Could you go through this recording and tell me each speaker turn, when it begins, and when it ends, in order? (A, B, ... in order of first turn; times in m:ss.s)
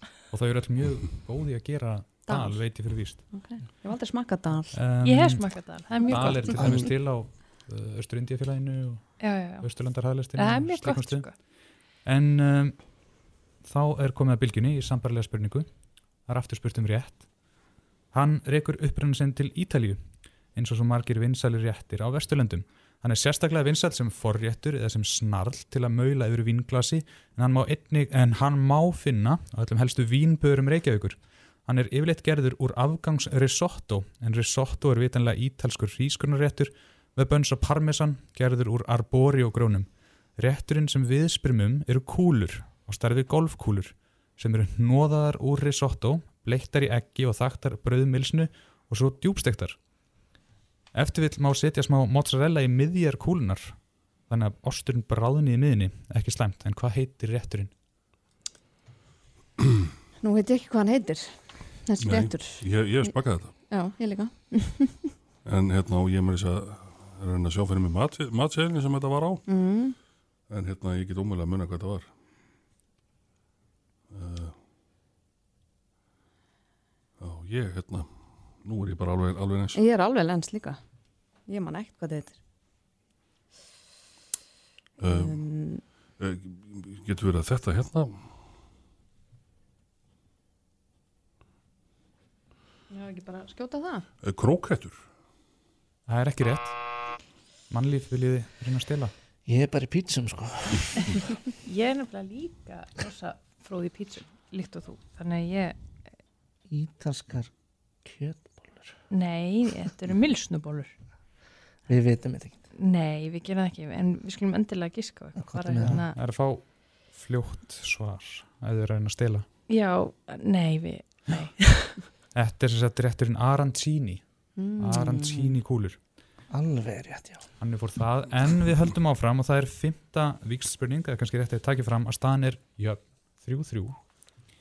0:00.3-0:03.2 A
0:02.3-0:04.8 B
0:04.7-0:49.8 A
0:05.0-0:06.9 C
0:06.1-0:06.4 B
0:09.2-0:09.7 C
0:10.4-0:11.4 C
0:50.9-0:57.7 A
1:00.2-1:05.1 B
1:02.0-1:03.6 D
1:05.4-1:09.4 D
1:09.5-1:10.0 B
1:10.5-1:12.1 D
1:14.1-1:14.6 D
1:17.2-1:19.8 D
1:19.7-1:20.8 B
1:21.4-1:22.4 B
1:25.0-1:28.3 D
1:25.0-1:25.9 B
1:32.9-1:34.1 B
1:34.2-1:35.1 D
1:36.1-1:39.1 A
1:39.5-1:40.9 E
1:41.6-1:45.8 C
1:46.7-1:49.1 E
1:49.1-1:51.0 C
1:51.9-1:52.7 E
1:52.8-1:56.2 C
1:55.4-1:56.0 E
1:55.8-1:59.5 A
1:59.7-2:01.6 C
2:02.3-2:06.0 A
2:04.6-2:05.5 B
2:06.5-2:07.5 E
2:07.6-2:14.0 A